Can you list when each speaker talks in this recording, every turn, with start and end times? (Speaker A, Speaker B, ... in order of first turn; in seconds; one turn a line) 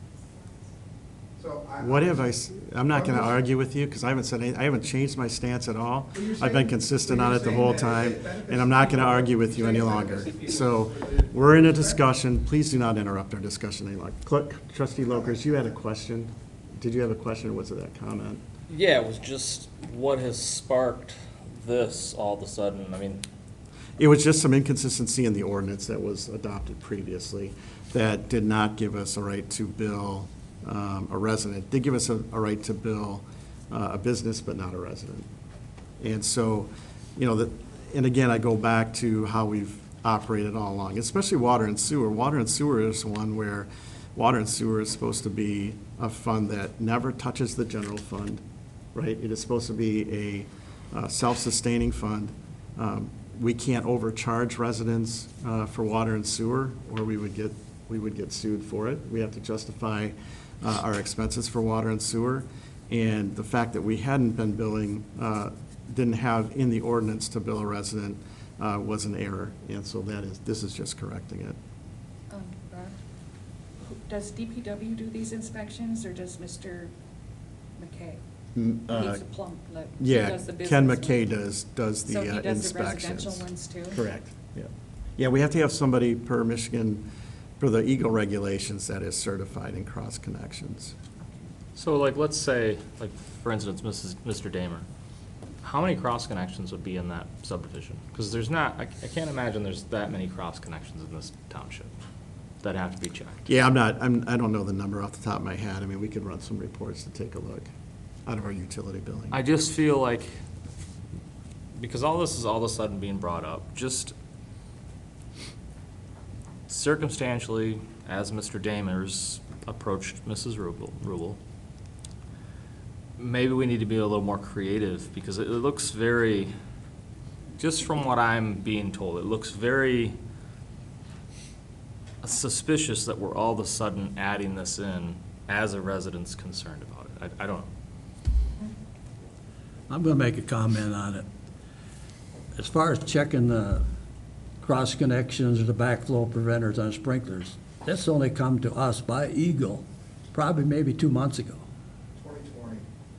Speaker A: 1.4-2.1
Speaker B: 1.8-18.4
Speaker A: 2.9-3.4
Speaker A: 6.1-12.0
Speaker A: 15.1-15.7
Speaker C: 18.7-23.2
Speaker B: 24.0-35.3
Speaker B: 36.0-48.4
Speaker B: 48.9-71.6
Speaker D: 72.3-73.0
Speaker D: 73.8-76.9
Speaker D: 77.8-78.2
Speaker B: 78.5-79.2
Speaker D: 78.9-81.2
Speaker B: 80.0-87.0
Speaker D: 82.0-84.0
Speaker B: 87.6-90.9
Speaker C: 91.7-94.8
Speaker C: 95.6-101.9
Speaker C: 102.6-103.4
Speaker B: 103.5-107.7
Speaker B: 108.2-109.4
Speaker C: 109.3-110.3
Speaker C: 111.7-114.1
Speaker C: 116.7-121.4
Speaker C: 123.2-126.5
Speaker C: 127.6-130.2
Speaker C: 132.2-137.7
Speaker E: 139.9-141.2
Speaker E: 142.6-143.8
Speaker E: 144.6-151.6
Speaker A: 152.2-152.8